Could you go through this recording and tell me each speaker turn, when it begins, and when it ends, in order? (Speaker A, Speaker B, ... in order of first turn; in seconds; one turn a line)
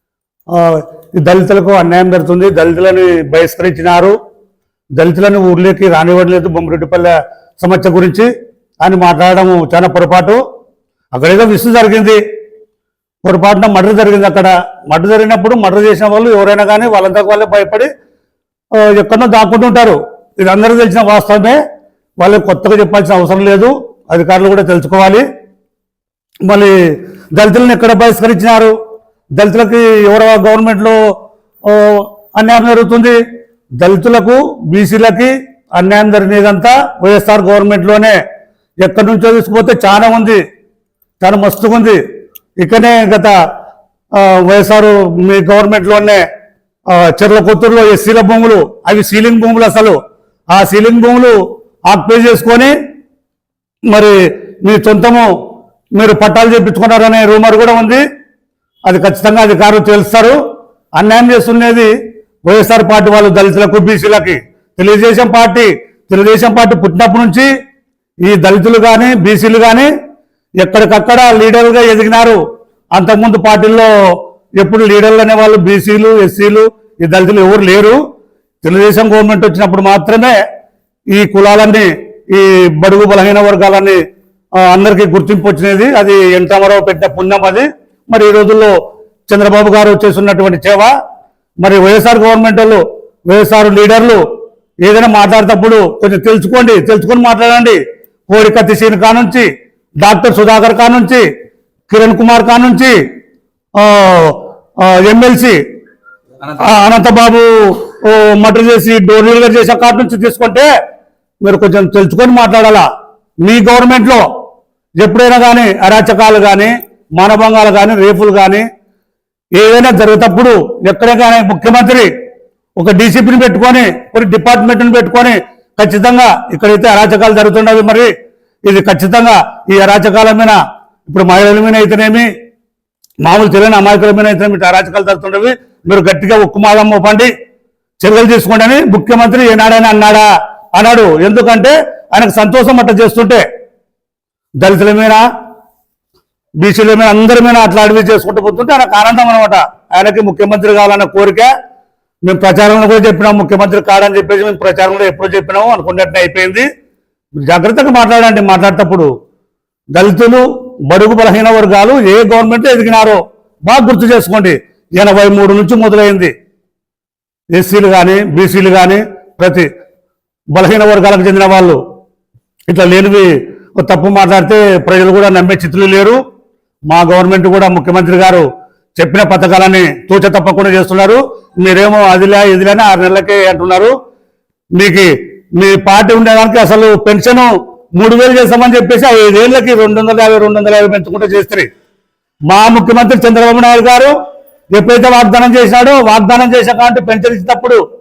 Speaker A: 0.5-4.2
Speaker A: 4.9-10.4
Speaker A: 11.1-12.2
Speaker A: 13.2-17.9
Speaker A: 18.7-21.6
Speaker A: 22.2-25.2
Speaker A: 26.4-28.8
Speaker A: 29.3-31.0
Speaker A: 31.6-33.2
Speaker A: 33.8-38.2
Speaker A: 38.8-40.4
Speaker A: 41.2-42.0
Speaker A: 42.5-43.4
Speaker A: 44.1-46.2
Speaker A: 46.9-52.7
Speaker A: 53.9-55.3
Speaker A: 56.0-58.0
Speaker A: 58.8-60.4
Speaker A: 60.9-61.9
Speaker A: 62.4-67.5
Speaker A: 68.2-69.9
Speaker A: 70.6-72.4
Speaker A: 72.9-73.9
Speaker A: 74.5-78.0
Speaker A: 78.6-80.4
Speaker A: 81.1-84.0
Speaker A: 84.6-88.7
Speaker A: 89.3-91.0
Speaker A: 91.6-94.2
Speaker A: 94.8-101.2
Speaker A: 101.9-103.0
Speaker A: 103.8-105.6
Speaker A: 106.7-110.7
Speaker A: 111.4-112.9
Speaker A: 113.4-114.3
Speaker A: 115.0-118.7
Speaker A: 119.5-122.1
Speaker A: 122.8-132.3
Speaker A: 133.2-137.3
Speaker A: 138.0-143.4
Speaker A: 144.6-145.2
Speaker A: 146.6-151.5
Speaker A: 152.2-156.7
Speaker A: 157.4-159.1
Speaker A: 159.9-166.3
Speaker A: 167.5-169.7
Speaker A: 170.5-171.8
Speaker A: 172.7-176.2
Speaker A: 176.9-184.0
Speaker A: 184.7-191.7
Speaker A: 192.5-194.2
Speaker A: 194.7-197.8